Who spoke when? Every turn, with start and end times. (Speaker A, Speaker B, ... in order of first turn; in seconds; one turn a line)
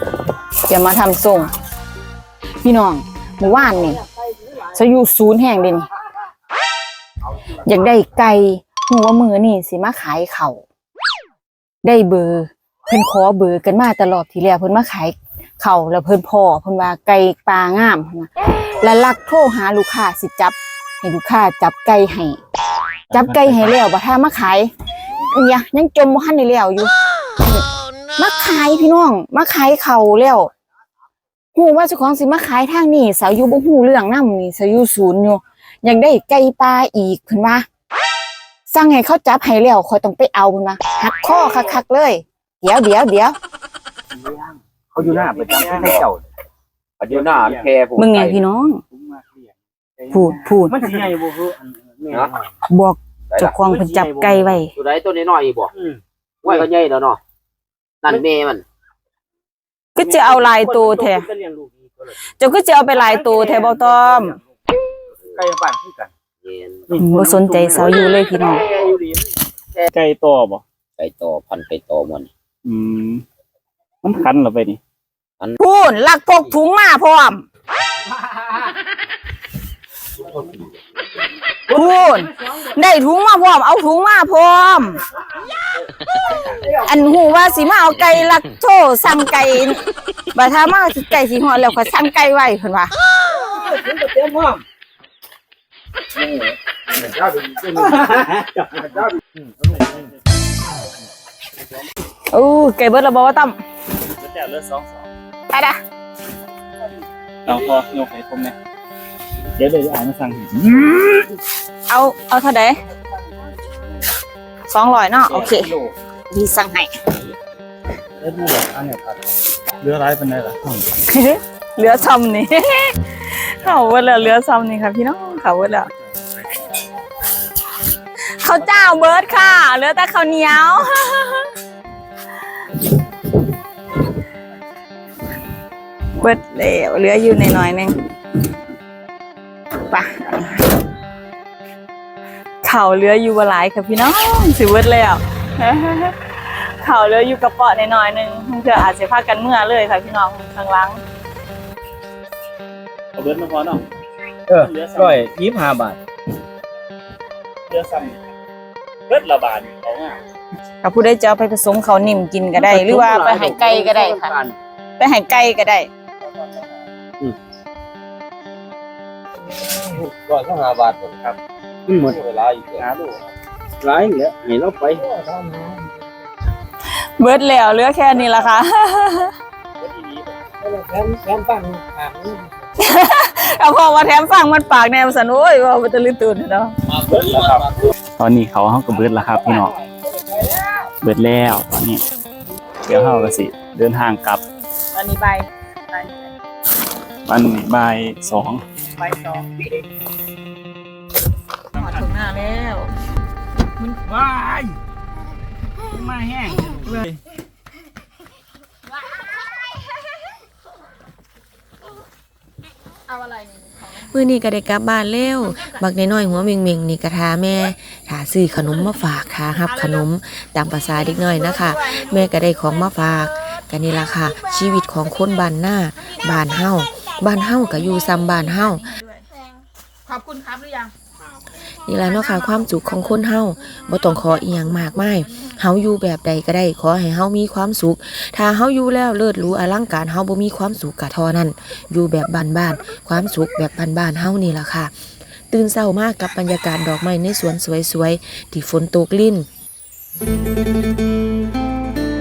Speaker A: 0.7-1.5
Speaker A: 2.6-4.0
Speaker A: 4.7-5.9
Speaker A: 7.6-10.6
Speaker A: 11.8-22.4
Speaker B: 23.1-23.8
Speaker A: 23.1-24.7
Speaker A: 25.3-30.5
Speaker A: 31.5-37.6
Speaker A: 38.7-43.4
Speaker B: 44.2-46.0
Speaker C: 44.9-46.2
Speaker D: 47.0-48.4
Speaker B: 47.1-47.7
Speaker A: 48.0-48.8
Speaker B: 48.9-49.5
Speaker B: 50.0-51.2
Speaker A: 50.1-50.8
Speaker C: 50.7-52.5
Speaker A: 52.7-54.7
Speaker D: 53.3-55.7
Speaker C: 53.4-54.6
Speaker B: 55.8-56.6
Speaker D: 56.4-57.2
Speaker D: 58.0-58.6
Speaker A: 60.0-61.3
Speaker C: 60.0-61.9
Speaker A: 62.4-64.4
Speaker B: 65.4-66.1
Speaker D: 66.4-67.0
Speaker B: 66.9-68.3
Speaker A: 67.0-68.7
Speaker D: 68.5-68.9
Speaker B: 69.8-70.6
Speaker D: 71.0-72.3
Speaker B: 72.6-73.2
Speaker B: 74.0-74.8
Speaker A: 75.6-77.4
Speaker D: 76.3-76.6
Speaker A: 81.7-85.0
Speaker A: 86.8-89.8
Speaker A: 90.3-92.9
Speaker C: 93.4-94.6
Speaker C: 96.2-98.5
Speaker B: 99.7-100.1
Speaker A: 102.3-103.6
Speaker B: 104.2-105.1
Speaker A: 105.5-105.8
Speaker B: 107.5-108.5
Speaker B: 109.5-111.3
Speaker A: 111.9-112.8
Speaker A: 114.7-115.7
Speaker B: 115.3-115.9
Speaker A: 116.3-116.9
Speaker B: 118.2-119.2
Speaker B: 119.8-120.8
Speaker A: 121.0-125.9
Speaker A: 128.3-131.4
Speaker A: 136.2-137.9
Speaker A: 139.9-140.7
Speaker A: 142.6-151.0
Speaker B: 153.2-153.8
Speaker B: 154.5-155.3
Speaker C: 154.5-156.0
Speaker B: 157.7-158.2
Speaker B: 159.1-160.2
Speaker A: 160.8-164.3
Speaker C: 162.7-162.9
Speaker D: 162.7-164.5
Speaker A: 165.0-165.9
Speaker C: 170.1-170.9
Speaker D: 170.2-170.7
Speaker C: 171.9-172.2
Speaker D: 172.2-172.9
Speaker B: 172.8-173.2
Speaker C: 173.8-175.6
Speaker A: 177.2-179.3
Speaker B: 179.8-180.3
Speaker C: 180.6-182.4
Speaker D: 181.3-182.3
Speaker A: 182.8-186.7
Speaker B: 186.9-189.7
Speaker B: 191.0-192.0
Speaker B: 192.8-194.4
Speaker A: 194.9-196.3
Speaker B: 197.2-198.6
Speaker A: 199.0-199.5
Speaker A: 201.8-202.9
Speaker C: 204.1-204.7
Speaker C: 205.9-207.0
Speaker E: 213.8-228.9
Speaker A: 230.1-230.9
Speaker E: 231.8-244.9
Speaker E: 245.5-249.5